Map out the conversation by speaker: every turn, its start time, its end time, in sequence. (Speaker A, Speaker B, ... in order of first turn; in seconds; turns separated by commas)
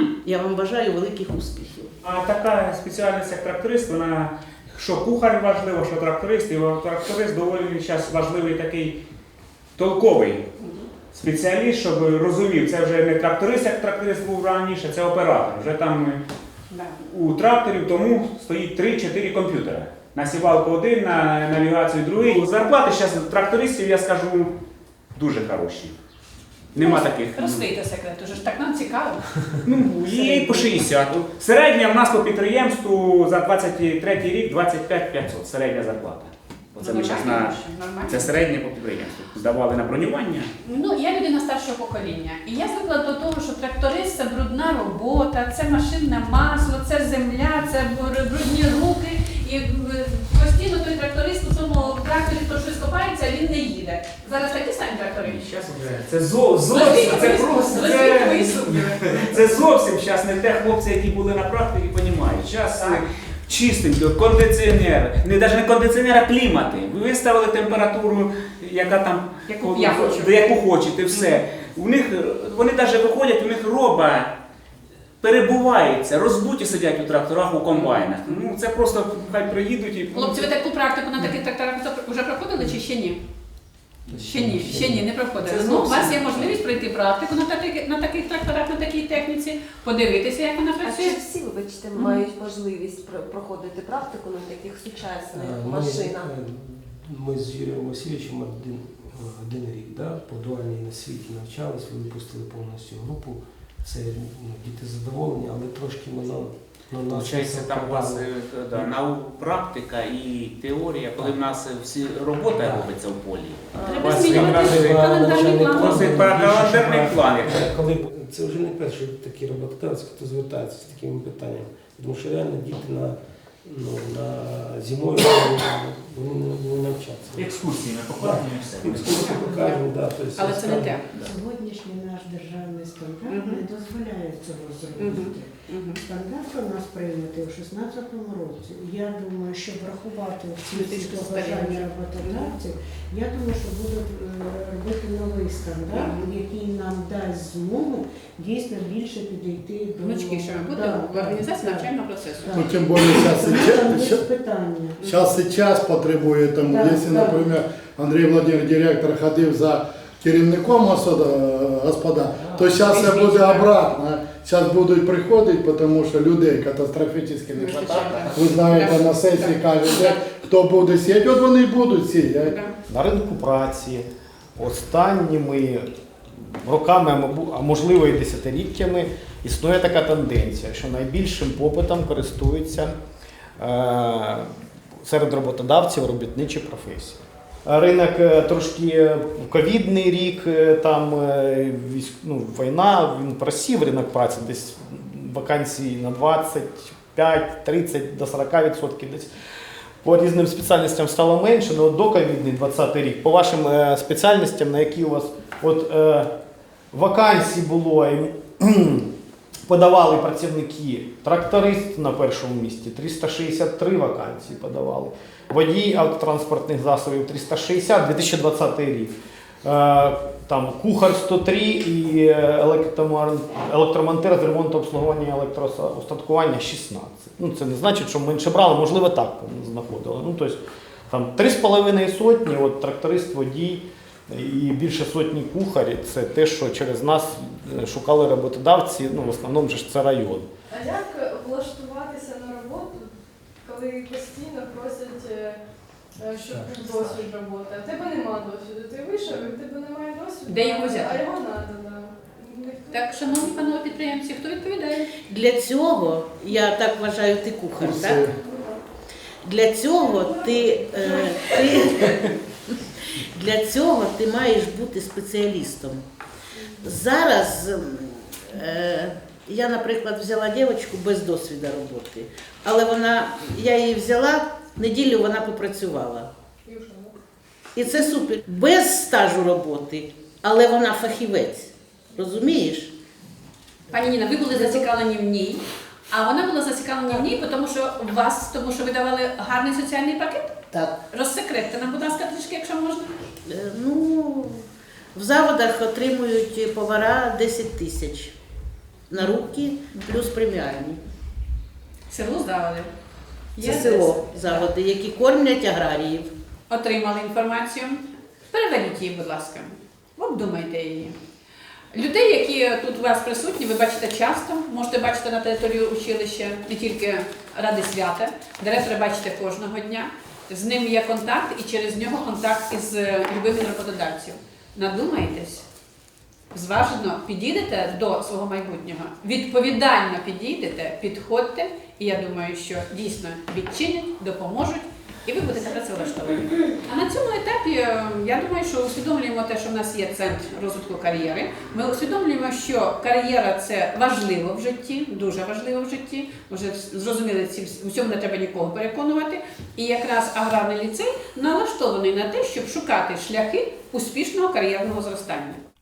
Speaker A: 0.2-1.9, Speaker B: 2.0-9.0, Speaker B: 9.8-10.4, Speaker C: 10.6-10.9, Speaker B: 11.1-16.2, Speaker C: 16.7-17.0, Speaker B: 17.0-24.5, Speaker B: 25.1-25.9, Speaker B: 26.7-27.7, Speaker C: 26.8-30.8, Speaker B: 29.6-37.6, Speaker C: 36.8-38.4, Speaker B: 38.1-40.5, Speaker C: 40.6-55.4, Speaker B: 55.2-74.3, Speaker C: 56.7-59.3, Speaker C: 62.7-63.0, Speaker C: 69.5-70.6, Speaker C: 71.1-71.4, Speaker B: 75.2-80.5, Speaker C: 77.7-78.4, Speaker C: 80.1-83.2, Speaker D: 84.1-85.0, Speaker C: 84.3-91.2, Speaker B: 85.4-86.6, Speaker E: 90.8-96.3, Speaker C: 92.0-92.2, Speaker D: 95.3-108.9, Speaker B: 107.0-117.7, Speaker D: 112.5-112.9, Speaker C: 113.8-116.3, Speaker D: 114.2-127.5, Speaker B: 127.3-129.3, Speaker D: 128.2-131.0, Speaker C: 129.1-129.8, Speaker C: 130.3-131.0, Speaker F: 131.2-151.9, Speaker C: 133.3-133.6, Speaker C: 135.0-136.0, Speaker C: 140.7-142.5, Speaker C: 145.9-146.3, Speaker C: 150.0-152.6, Speaker F: 152.4-155.2, Speaker G: 152.5-154.2, Speaker G: 155.0-172.6, Speaker F: 156.7-157.4, Speaker C: 162.5-163.7, Speaker C: 167.5-170.2, Speaker B: 168.0-168.4, Speaker C: 172.4-172.7, Speaker H: 172.9-183.0, Speaker H: 183.6-184.5, Speaker H: 185.0-199.3, Speaker H: 200.0-206.3, Speaker H: 206.9-209.1, Speaker H: 209.7-219.1, Speaker H: 219.6-240.5, Speaker I: 240.7-245.6, Speaker I: 246.2-254.0, Speaker D: 246.5-247.1, Speaker C: 250.4-251.2, Speaker C: 252.9-255.1, Speaker A: 255.3-258.3, Speaker G: 257.8-258.3, Speaker I: 258.4-258.8, Speaker A: 259.4-262.3, Speaker I: 260.1-262.3, Speaker A: 263.3-266.0, Speaker I: 266.6-266.9, Speaker A: 266.8-276.3, Speaker I: 276.6-277.1, Speaker A: 277.7-282.9, Speaker C: 283.9-290.6, Speaker A: 284.5-284.9, Speaker A: 290.7-290.9, Speaker C: 291.1-293.1, Speaker A: 293.4-298.3, Speaker A: 299.1-301.0, Speaker C: 302.1-302.9, Speaker C: 303.6-304.7, Speaker A: 303.6-306.3, Speaker C: 306.7-311.1, Speaker C: 311.9-325.6, Speaker C: 326.5-355.6